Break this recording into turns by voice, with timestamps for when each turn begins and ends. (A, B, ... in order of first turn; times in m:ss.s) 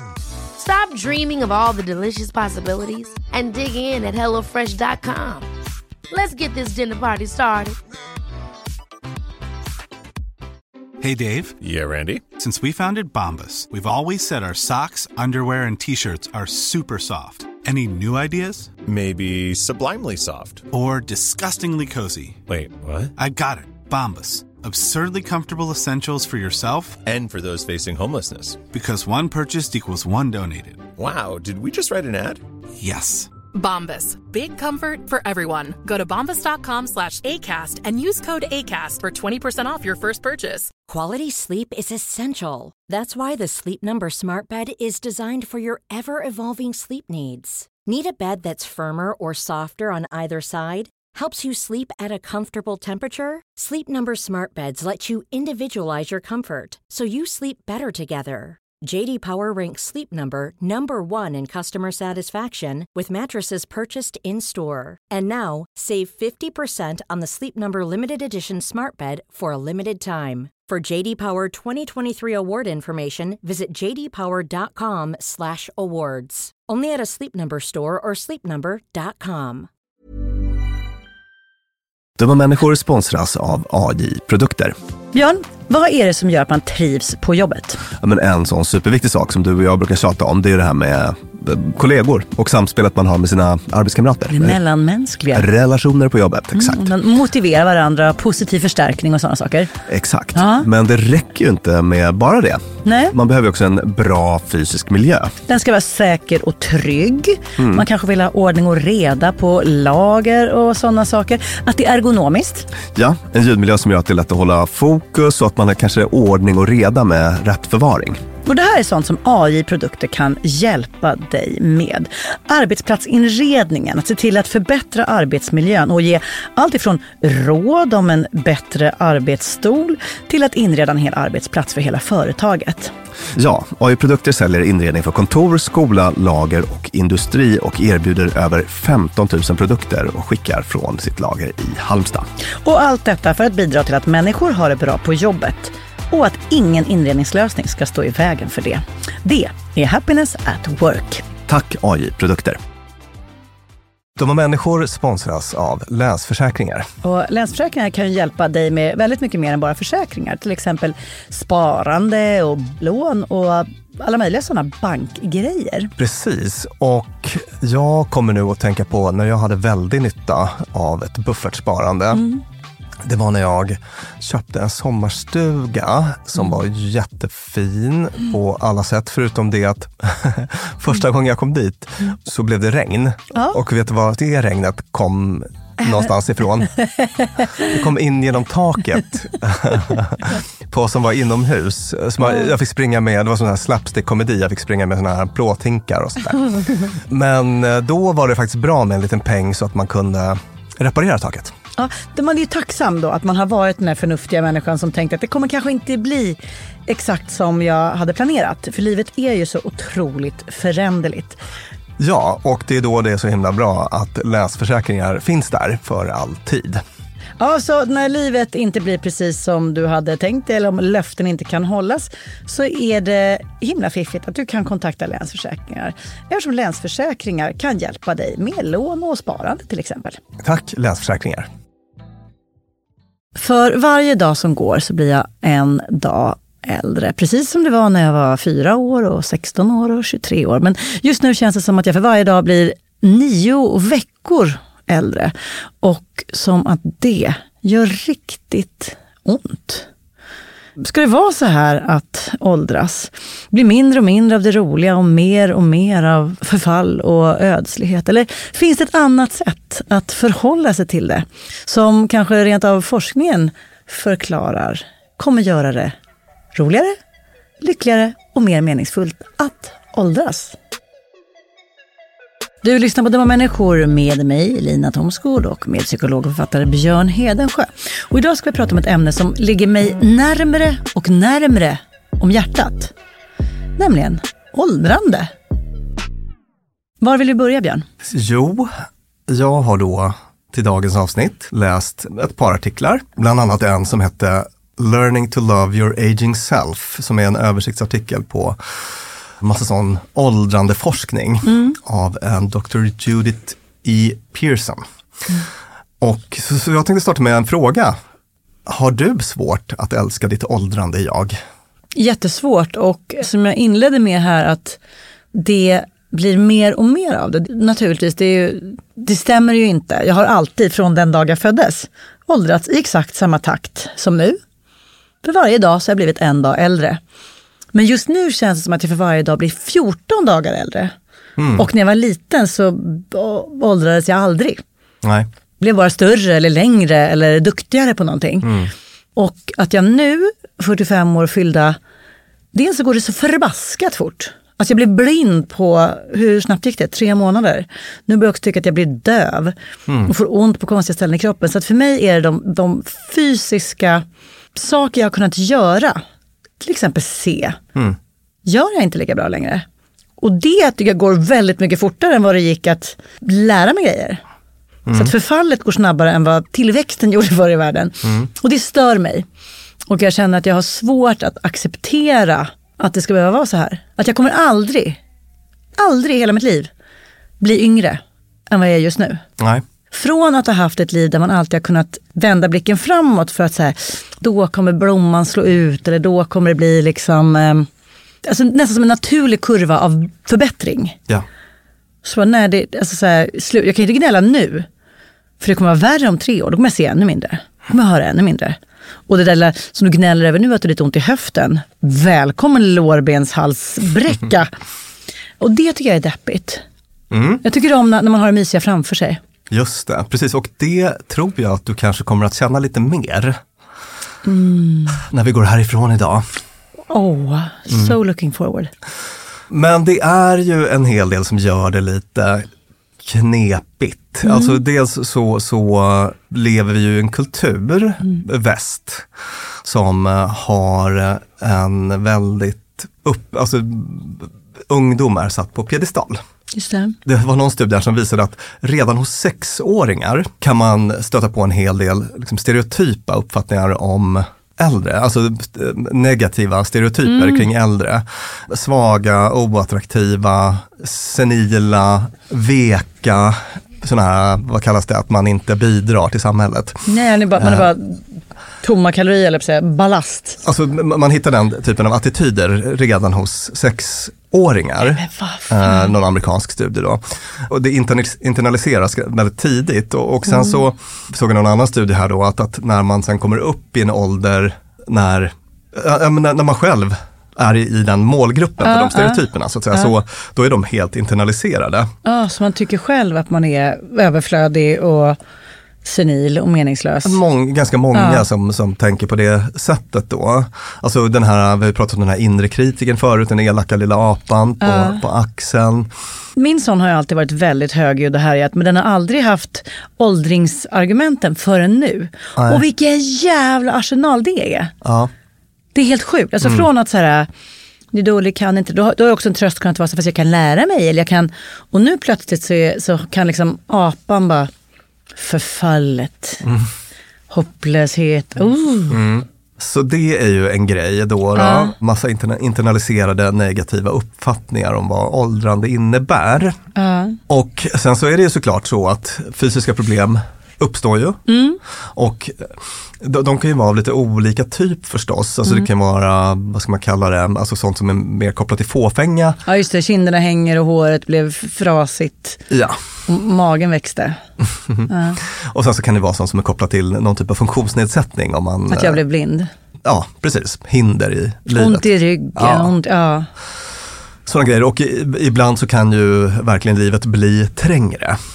0:00.6-0:05.5 A
0:06.1-0:07.7 A
0:11.0-0:11.6 B
0:11.6-0:12.2 C
0:12.4-0:18.7 B
0:18.8-0:20.6 C
0:20.7-0:22.4 B
0:22.5-0:23.1 C
0:23.2-0:27.0 B
0:27.0-0:28.6 C
0:28.7-0:30.9 B
0:31.0-0:32.4 C
0:32.8-0:33.3 B
0:33.5-0:40.7 D
0:40.9-1:19.7 E
1:22.2-1:24.8 F
1:25.1-1:27.8 G
1:28.0-1:34.6 F
1:34.3-1:35.5 G
1:35.3-1:36.9 F
1:36.5-1:39.7 G
1:39.9-1:45.4 F
1:40.3-1:40.7 G
1:42.8-1:43.2 G
1:45.5-1:52.7 G
1:47.6-1:47.8 F
1:52.9-1:58.2 F
1:58.4-2:12.9 G
2:13.3-2:22.3 F
2:22.6-2:31.2 G
2:31.5-2:32.6 F
2:34.2-2:36.9 F
2:37.0-2:45.9 G
2:46.0-2:52.2 F
2:52.1-2:52.4 G
2:53.0-3:06.7 F
3:06.8-3:07.7 G
3:07.6-3:21.5 F
3:12.2-3:12.5 G
3:21.8-3:31.4 G
3:32.0-3:36.8 F
3:37.4-3:50.2 G
3:50.4-3:51.5 F
3:53.4-4:09.9 G
4:10.8-4:25.9 G
4:26.5-4:27.0 G
4:27.6-4:30.6 G
4:32.6-4:42.9 G
4:43.8-4:45.3 G
4:47.0-4:47.8 G
4:48.0-4:48.7 F
4:49.3-4:58.6 F
4:59.4-5:04.8 F
5:01.4-5:01.8 G
5:06.0-5:08.0 F
5:08.6-5:11.4 F
5:11.9-5:14.8 G
5:15.3-5:24.4 G
5:25.2-5:27.0 G
5:27.7-5:30.9 G
5:31.4-5:31.7 F
5:31.6-5:34.6 G
5:35.0-5:35.3 F
5:35.6-5:38.5 G
5:38.4-5:38.7 F
5:39.2-5:41.8 G
5:42.5-5:49.5 G
5:49.9-5:50.1 F
5:50.0-5:54.0 G
5:54.5-5:56.0 G
5:56.6-5:57.6 G
5:58.4-5:59.6 G
6:00.2-6:04.2 G
6:04.8-6:05.1 F
6:04.9-6:09.2 G
6:09.9-6:15.0 G
6:15.8-6:16.7 G
6:17.4-6:19.2 G
6:19.4-6:19.6 F
6:19.9-6:27.7 G
6:28.2-6:31.0 G
6:32.0-6:34.7 G
6:35.4-6:44.5 G
6:45.4-6:46.6 G
6:47.1-6:47.4 F
6:47.4-6:49.2 G
6:49.5-6:53.4 F
6:54.2-6:55.0 G
6:55.0-6:56.2 F
6:56.9-6:58.7 G
6:57.7-6:58.0 F
6:59.5-7:02.5 F
7:03.0-7:09.1 F
7:04.2-7:04.6 G
7:09.6-7:16.2 F
7:16.5-7:17.0 G
7:17.0-7:36.8 F
7:27.1-7:27.4 G
7:36.9-7:38.0 G
7:37.4-7:37.7 F
7:38.6-7:40.4 G
7:40.4-8:01.9 F
7:44.8-7:45.9 G
7:50.2-7:50.6 G
7:58.6-7:59.9 G
8:02.0-8:05.2 G
8:05.8-8:07.2 G
8:07.0-8:15.9 F
8:07.9-8:08.2 G
8:14.6-8:15.0 G
8:16.4-8:24.7 G
8:22.4-8:22.6 F
8:24.8-8:25.1 F
8:25.7-8:27.3 G
8:27.9-8:34.5 G
8:35.2-8:36.4 G
8:36.4-8:36.7 F
8:37.3-8:39.0 G
8:38.9-8:46.6 F
8:41.3-8:41.7 G
8:46.8-8:47.2 G
8:47.3-8:51.2 F
8:51.3-8:51.6 G
8:51.9-8:59.4 F
8:59.4-9:02.4 G
9:02.5-9:02.8 F
9:03.1-9:04.2 G
9:04.6-9:09.0 F
9:04.9-9:05.2 G
9:08.7-9:09.5 G
9:09.8-9:12.7 F
9:11.5-9:13.3 G
9:14.2-9:18.2 F